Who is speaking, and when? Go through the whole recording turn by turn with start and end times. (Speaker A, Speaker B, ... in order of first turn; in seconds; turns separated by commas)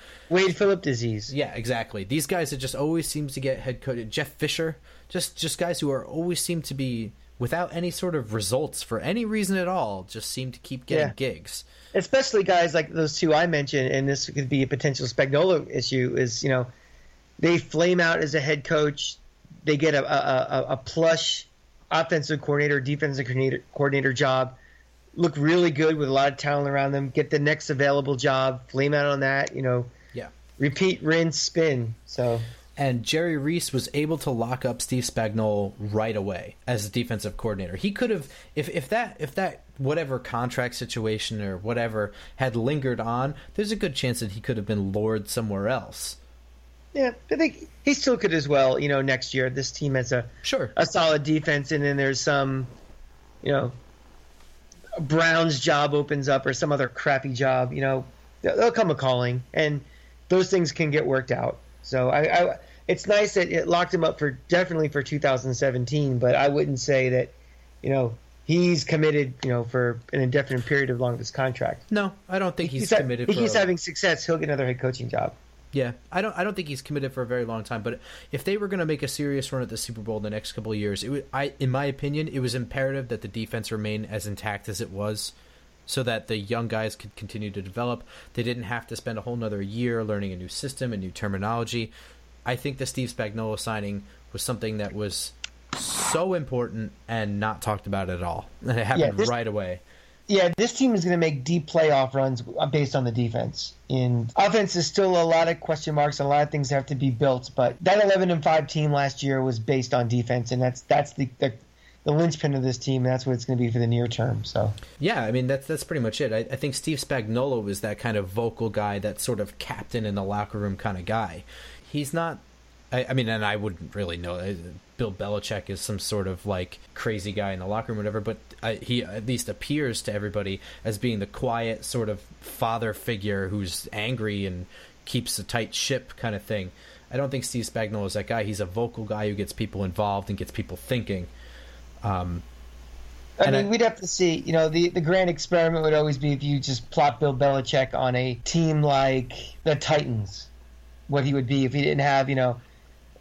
Speaker A: 0.3-1.3, Speaker B: 1.3-11.6, Speaker A: 11.9-16.7, Speaker A: 17.4-24.6, Speaker A: 25.1-29.9, Speaker A: 30.6-32.5, Speaker B: 32.8-46.2, Speaker A: 46.9-52.7, Speaker B: 50.4-50.7, Speaker A: 53.4-53.7, Speaker A: 55.0-71.8, Speaker B: 71.9-73.7, Speaker A: 72.6-75.3, Speaker B: 75.7-85.3, Speaker B: 85.9-91.9, Speaker B: 92.5-99.8, Speaker A: 98.9-99.3, Speaker A: 100.3-114.8, Speaker B: 115.0-122.4, Speaker B: 122.9-141.3, Speaker B: 142.0-142.4, Speaker A: 143.4-150.5, Speaker B: 143.4-143.7, Speaker A: 151.1-152.6